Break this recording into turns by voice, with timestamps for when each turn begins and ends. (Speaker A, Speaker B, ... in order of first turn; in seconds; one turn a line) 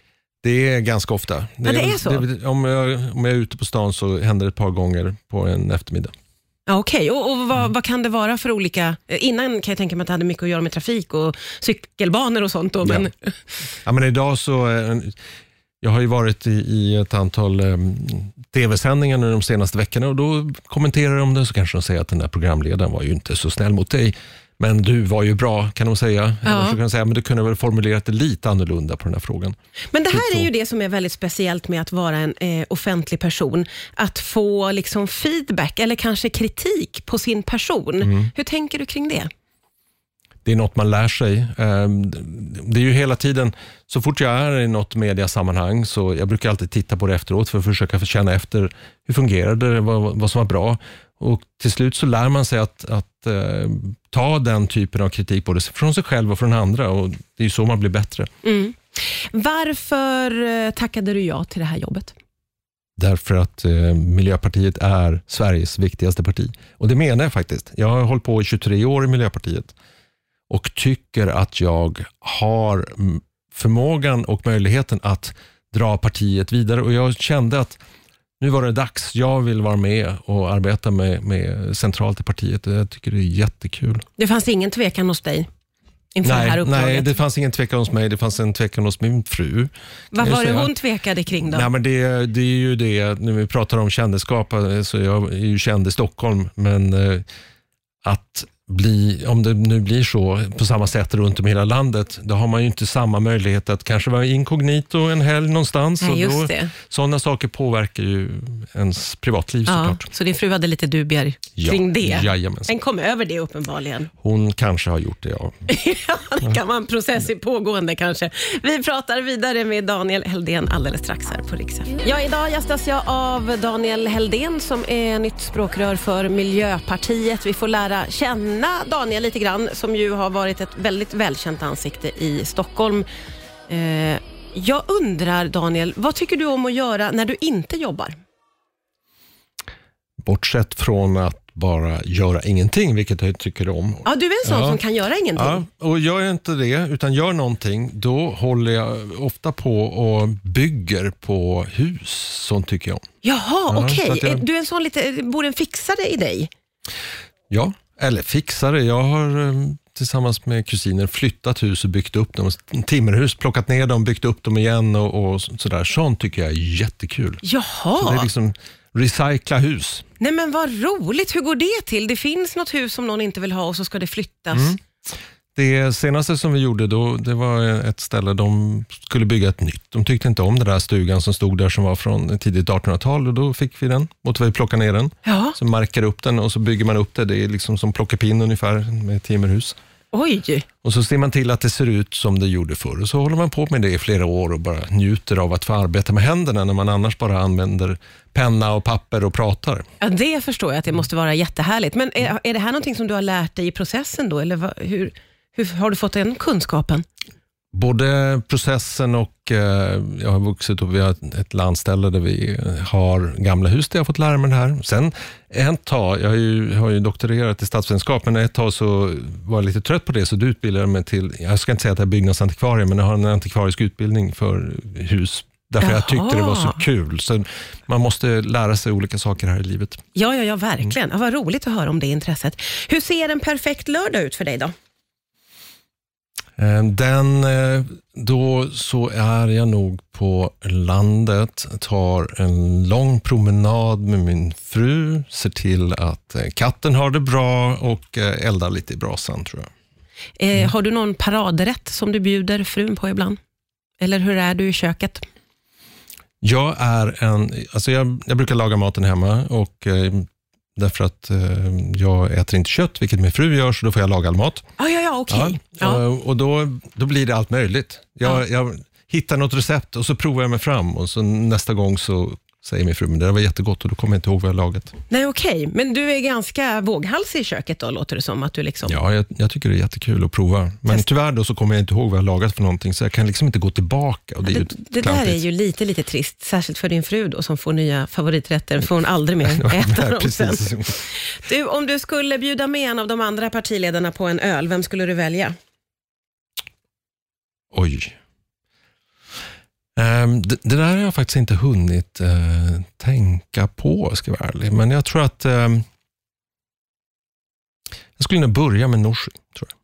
Speaker A: 0.4-6.1
Speaker B: 1.6-2.2
Speaker B: 6.7-13.3
Speaker A: 13.8-15.2
Speaker A: 15.8-29.6
Speaker B: 26.4-26.8
Speaker B: 29.9-39.3
Speaker A: 30.1-30.5
Speaker A: 38.0-38.3
Speaker A: 40.4-58.3
Speaker B: 58.4-62.1
Speaker A: 63.0-69.7
Speaker A: 70.5-77.8
Speaker A: 78.4-84.0
Speaker B: 84.2-85.5
Speaker B: 86.1-87.2
Speaker A: 86.2-90.7
Speaker B: 90.1-91.7
Speaker A: 91.5-97.2
Speaker A: 98.0-110.0
Speaker B: 106.0-106.7
Speaker B: 109.7-114.1
Speaker A: 111.6-112.7
Speaker A: 114.2-115.5
Speaker B: 115.7-133.1
Speaker B: 133.7-138.2
Speaker A: 140.2-144.8
Speaker B: 144.0-145.6
Speaker A: 145.3-153.0
Speaker B: 153.2-156.5
Speaker A: 153.7-154.4
Speaker A: 157.5-167.4
Speaker B: 167.4-168.3
Speaker A: 168.0-170.0
Speaker B: 170.2-174.7
Speaker A: 174.5-174.8
Speaker A: 175.5-189.8
Speaker B: 185.2-185.6
Speaker B: 190.1-190.7
Speaker A: 190.8-199.8
Speaker B: 200.0-207.0
Speaker A: 207.7-230.0
Speaker B: 225.8-226.8
Speaker B: 230.1-234.7
Speaker A: 236.6-249.7
Speaker B: 250.4-253.4
Speaker B: 254.0-255.2
Speaker A: 256.4-264.6
Speaker B: 264.8-266.0
Speaker A: 265.3-274.9
Speaker B: 275.1-279.0
Speaker A: 278.9-285.4
Speaker B: 284.4-295.5
Speaker A: 289.4-291.0
Speaker A: 297.7-298.1
Speaker A: 299.9-305.8
Speaker A: 308.2-309.7